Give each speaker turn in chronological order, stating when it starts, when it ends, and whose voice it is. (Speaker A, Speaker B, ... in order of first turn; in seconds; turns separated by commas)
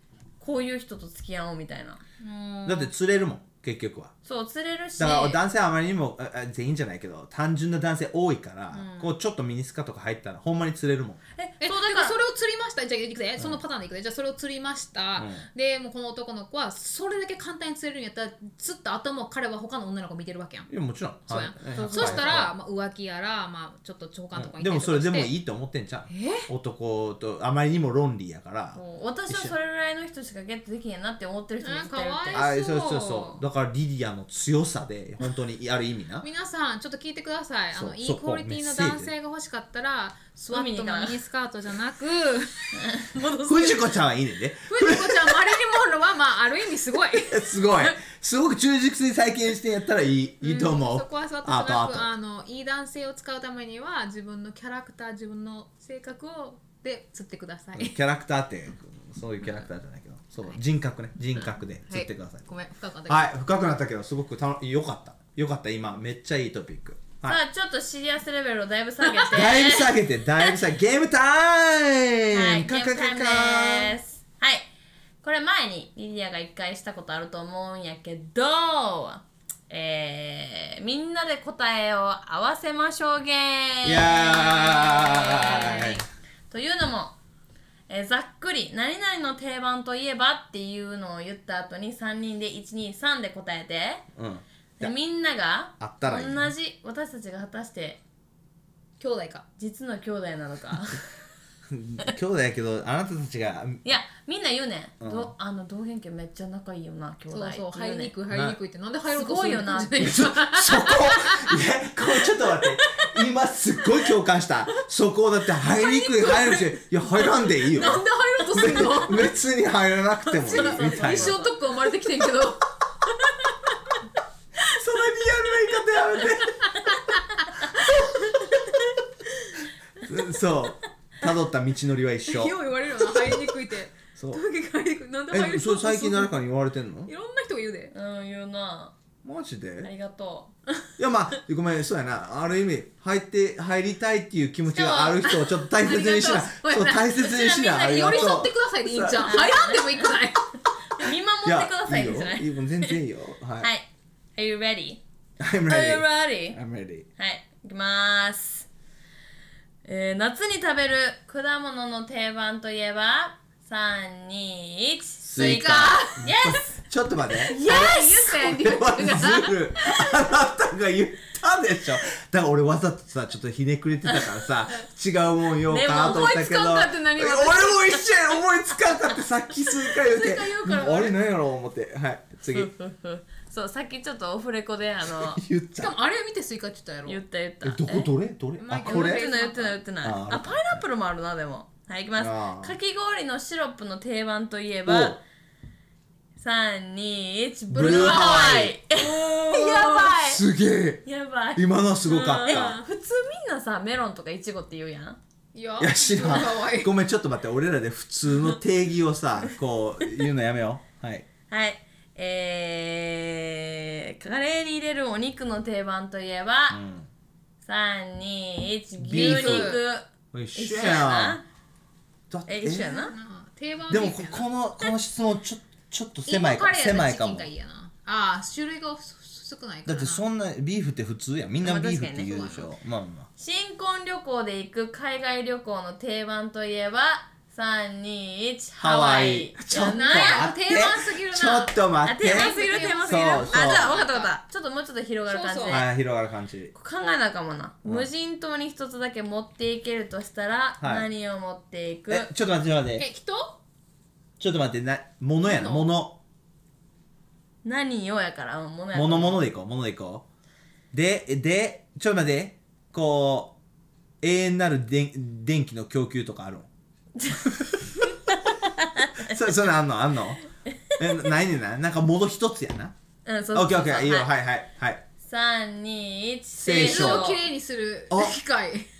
Speaker A: 0.4-2.0, Speaker B: 2.2-2.9, Speaker C: 2.6-4.1, Speaker A: 4.2-5.4, Speaker C: 5.0-11.2, Speaker B: 8.7-9.1, Speaker A: 11.4-12.2, Speaker B: 11.6-20.7, Speaker C: 15.2-15.4, Speaker C: 20.7-22.5, Speaker B: 21.3-25.3, Speaker A: 21.7-22.4, Speaker C: 24.4-29.5, Speaker B: 26.1-26.5, Speaker A: 28.8-32.5, Speaker B: 31.6-33.4, Speaker C: 32.3-36.3, Speaker B: 36.2-43.9, Speaker C: 37.7-39.1, Speaker A: 40.5-41.2, Speaker A: 42.8-43.1, Speaker C: 43.4-45.6, Speaker B: 44.7-47.5, Speaker C: 47.3-52.1, Speaker B: 50.4-58.0, Speaker C: 57.8-62.4, Speaker B: 61.4-63.3, Speaker C: 63.1-67.4, Speaker A: 67.2-69.9, Speaker C: 69.3-74.0, Speaker A: 72.3-74.7, Speaker A: 75.2-87.2, Speaker C: 83.8-86.0, Speaker A: 87.9-94.1, Speaker C: 94.2-94.9, Speaker A: 94.8-98.0, Speaker C: 95.8-96.5, Speaker B: 99.0-99.5, Speaker A: 99.6-101.0, Speaker C: 101.7-103.8, Speaker A: 103.8-108.1, Speaker C: 105.0-105.3, Speaker B: 107.3-111.6, Speaker C: 108.3-108.6, Speaker A: 109.1-110.1, Speaker C: 110.0-121.3, Speaker B: 112.2-113.1, Speaker B: 115.6-119.3, Speaker B: 120.3-123.5, Speaker A: 120.5-121.5, Speaker C: 124.7-126.7, Speaker B: 125.0-128.7, Speaker C: 130.0-132.6, Speaker B: 132.3-136.3, Speaker C: 134.2-134.4, Speaker C: 135.3-137.1, Speaker B: 137.1-137.9, Speaker A: 137.9-138.9, Speaker C: 139.2-139.9, Speaker A: 139.8-140.5, Speaker C: 141.0-149.4, Speaker B: 144.7-150.5, Speaker A: 147.4-148.3, Speaker A: 149.2-150.2, Speaker A: 151.0-153.0, Speaker C: 151.4-153.7, Speaker A: 153.6-155.0, Speaker C: 155.4-157.1, Speaker A: 155.7-156.6, Speaker A: 157.2-158.7, Speaker A: 159.9-166.7, Speaker C: 165.2-182.7, Speaker B: 165.4-166.2, Speaker A: 167.5-168.6, Speaker B: 167.5-170.0, Speaker A: 175.7-176.3, Speaker B: 175.8-178.2, Speaker B: 179.9-181.1, Speaker A: 182.5-185.4, Speaker C: 185.1-186.0, Speaker B: 185.8-187.2, Speaker A: 187.1-188.1, Speaker C: 187.6-189.3, Speaker B: 188.6-189.8, Speaker A: 188.8-195.2, Speaker C: 190.0-190.8, Speaker C: 192.2-192.8, Speaker C: 194.9-195.2, Speaker A: 196.4-200.4, Speaker C: 197.7-198.8, Speaker B: 197.7-200.1, Speaker C: 200.2-202.8, Speaker A: 201.1-205.2, Speaker B: 202.1-202.8, Speaker B: 205.5-206.9, Speaker C: 205.8-211.3, Speaker A: 211.5-216.8, Speaker C: 216.7-217.1, Speaker A: 217.6-221.4, Speaker C: 219.0-219.8, Speaker B: 219.1-219.8, Speaker C: 220.3-221.4, Speaker C: 222.3-223.0, Speaker A: 222.5-223.2, Speaker B: 222.9-224.9, Speaker C: 223.9-227.5, Speaker B: 226.3-230.2, Speaker C: 229.9-233.3, Speaker A: 231.6-232.3, Speaker B: 232.2-232.7, Speaker A: 233.4-240.5, Speaker C: 238.8-242.5, Speaker B: 239.7-244.3, Speaker A: 242.1-245.9, Speaker C: 243.1-244.0, Speaker B: 245.3-245.9, Speaker C: 245.7-246.7, Speaker A: 246.7-252.3, Speaker C: 250.8-251.1, Speaker C: 252.1-253.1, Speaker B: 253.0-253.6, Speaker C: 254.4-256.2, Speaker B: 255.4-255.9, Speaker A: 257.6-259.5, Speaker C: 258.9-260.2, Speaker C: 260.9-263.6, Speaker C: 264.2-266.7, Speaker A: 267.2-269.3, Speaker C: 267.4-268.1, Speaker C: 269.2-270.4, Speaker A: 270.7-271.3, Speaker C: 271.0-272.9, Speaker A: 273.3-274.3, Speaker C: 273.5-275.0, Speaker A: 275.2-277.4, Speaker C: 276.6-277.4, Speaker B: 276.7-278.9